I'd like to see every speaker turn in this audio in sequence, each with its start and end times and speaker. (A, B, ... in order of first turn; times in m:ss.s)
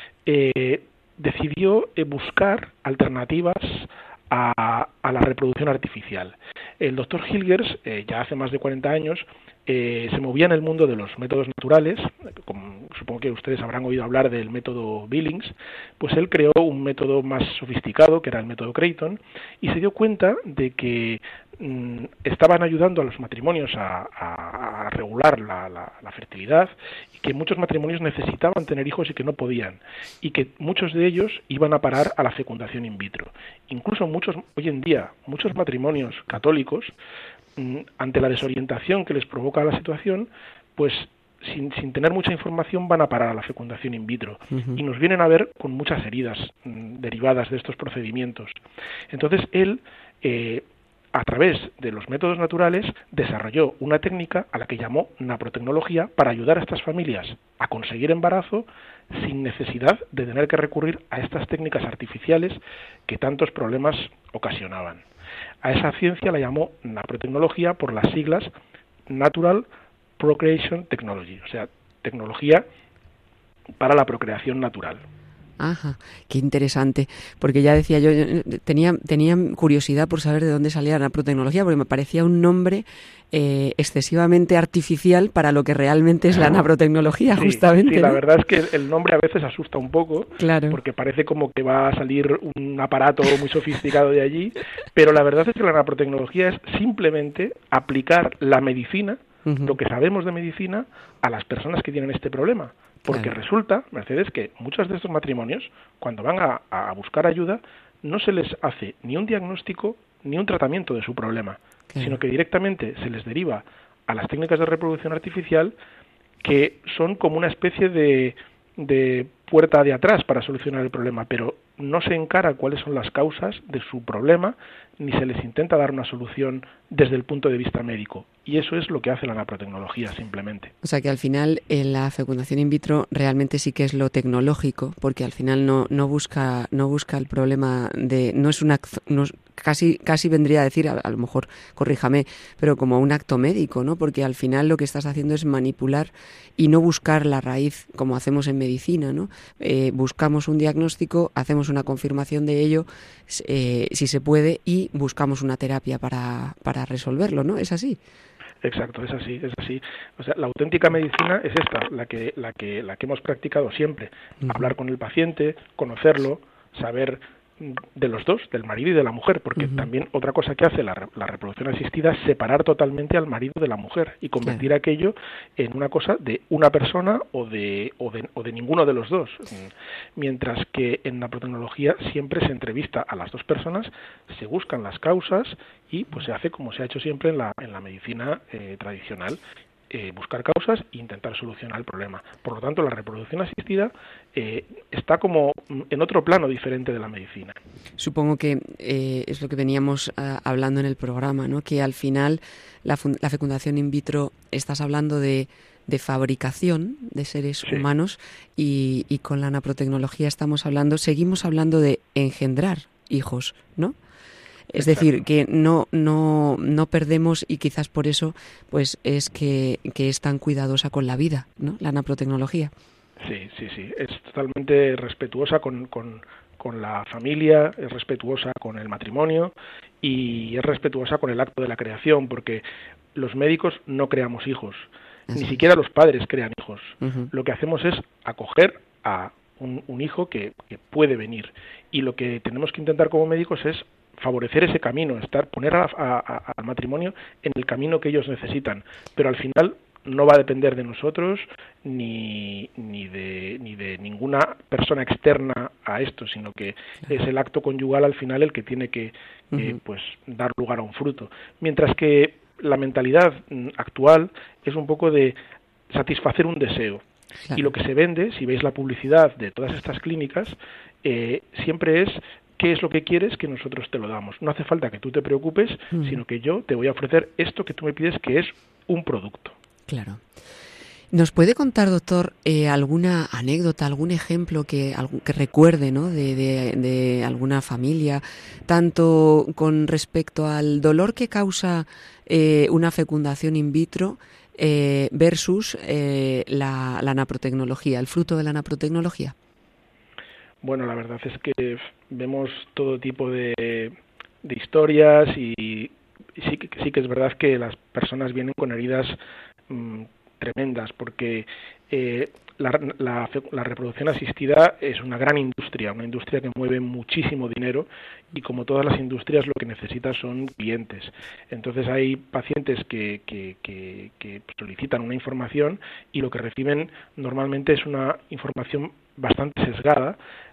0:00.2-0:36.9 A
0:37.6-0:48.5 A
0:44.5-0:44.8 B
0:49.1-1:05.0 A
1:05.6-1:08.5 A
1:09.1-1:09.7 A
1:10.2-1:12.6 A
1:13.8-1:15.0 A
1:15.6-1:28.2 B
1:27.3-1:55.7 A
1:30.4-1:30.8 B
1:39.4-1:39.8 B
1:43.1-1:43.3 B
1:51.9-1:52.2 B
1:56.4-2:10.7 A
2:10.8-2:38.0 B
2:38.6-3:17.6 A
2:44.4-2:44.7 B
2:49.6-2:49.9 B
3:18.0-3:34.0 B
3:34.7-3:42.7 B
3:34.8-3:35.1 A
3:43.2-3:52.6 A
3:53.1-4:25.4 A
3:57.0-3:57.3 B
4:25.9-4:27.0 A
4:27.4-4:27.7 B
4:27.5-4:39.5 A
4:35.9-4:36.2 B
4:39.9-4:40.2 B
4:41.1-4:59.3 B
5:00.6-5:09.2 A
5:09.7-5:30.2 A